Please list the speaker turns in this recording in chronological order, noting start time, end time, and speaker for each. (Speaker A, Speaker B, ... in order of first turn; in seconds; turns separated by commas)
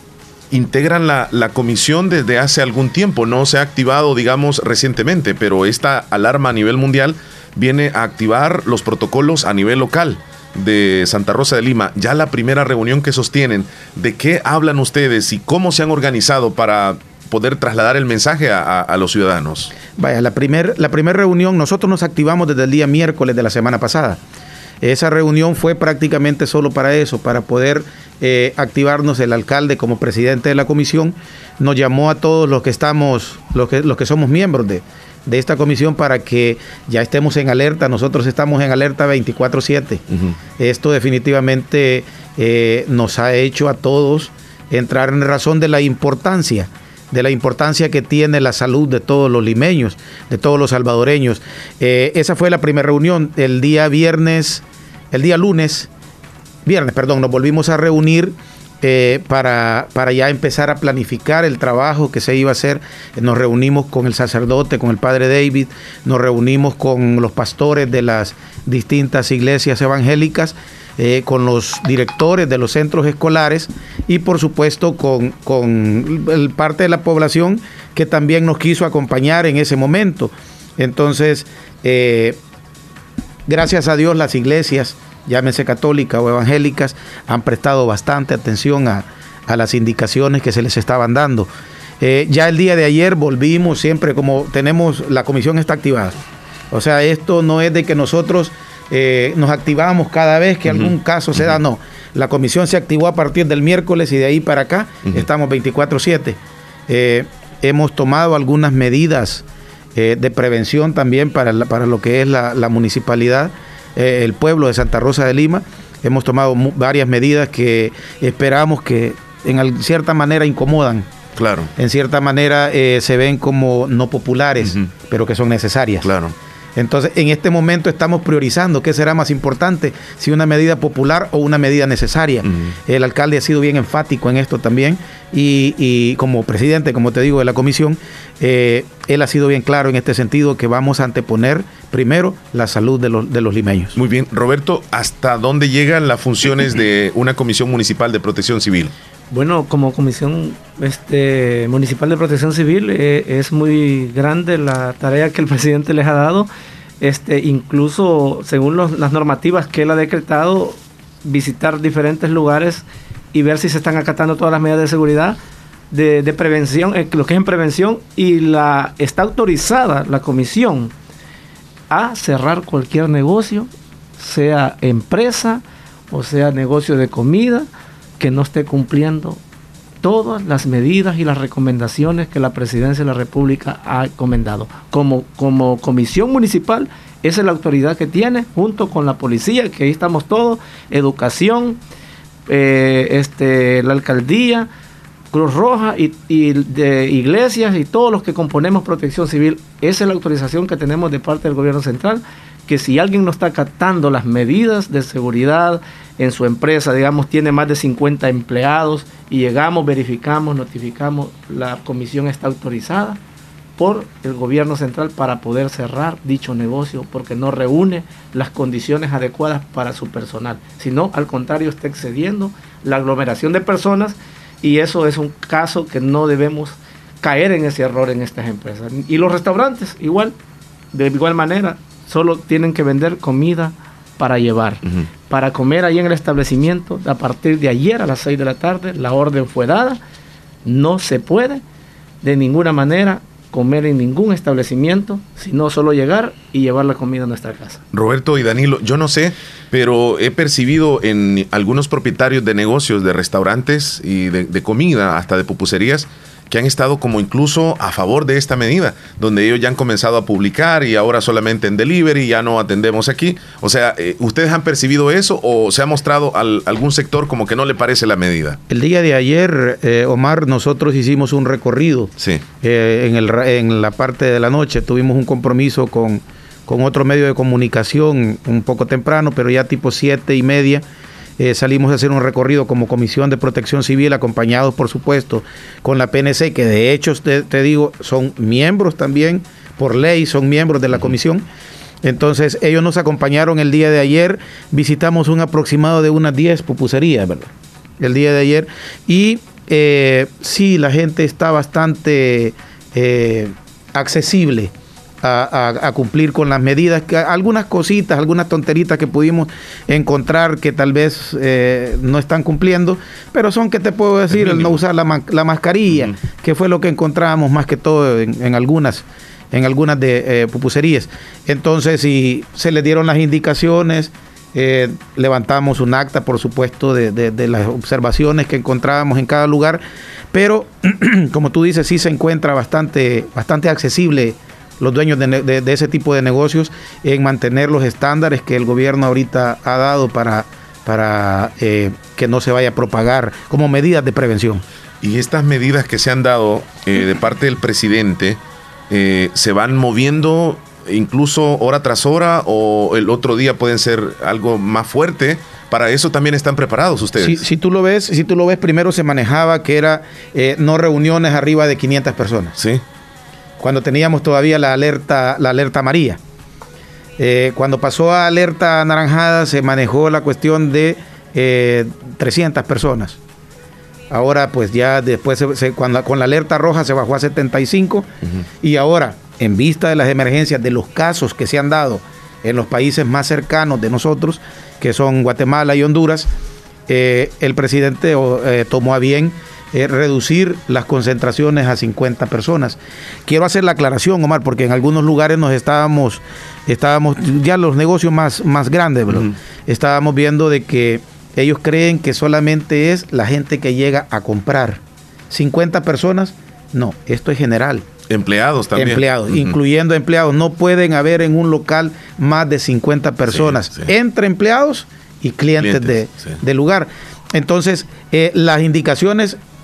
Speaker A: 0.5-19.7, Speaker B: 19.9-24.2, Speaker B: 24.8-40.0, Speaker B: 40.6-55.9, Speaker B: 56.6-82.4, Speaker B: 83.5-91.5, Speaker B: 92.0-96.1, Speaker B: 96.7-109.4, Speaker A: 100.7-101.5, Speaker B: 109.9-121.1, Speaker A: 121.3-121.7, Speaker B: 121.8-126.1, Speaker A: 124.6-124.9, Speaker A: 126.0-126.3, Speaker B: 126.8-143.9, Speaker A: 132.4-132.8, Speaker A: 143.9-148.9, Speaker C: 149.3-156.5, Speaker C: 157.0-165.4, Speaker C: 165.9-170.9, Speaker C: 171.9-177.7, Speaker C: 178.2-179.4, Speaker C: 180.0-191.8, Speaker C: 192.5-194.7, Speaker C: 195.3-213.2, Speaker C: 213.8-230.3, Speaker C: 230.9-240.0, Speaker C: 240.6-241.6, Speaker C: 242.2-247.8, Speaker A: 247.9-268.6, Speaker B: 268.7-280.8, Speaker A: 272.2-272.4, Speaker B: 281.4-291.4, Speaker B: 292.0-344.6, Speaker A: 314.3-314.7, Speaker A: 345.0-357.4, Speaker B: 357.2-362.6, Speaker A: 362.6-362.8, Speaker B: 363.6-366.2, Speaker B: 367.2-373.2, Speaker B: 374.1-378.1, Speaker B: 378.6-386.3, Speaker B: 386.9-407.8, Speaker A: 408.1-409.5, Speaker B: 408.7-419.4, Speaker A: 413.3-413.9, Speaker A: 415.6-416.4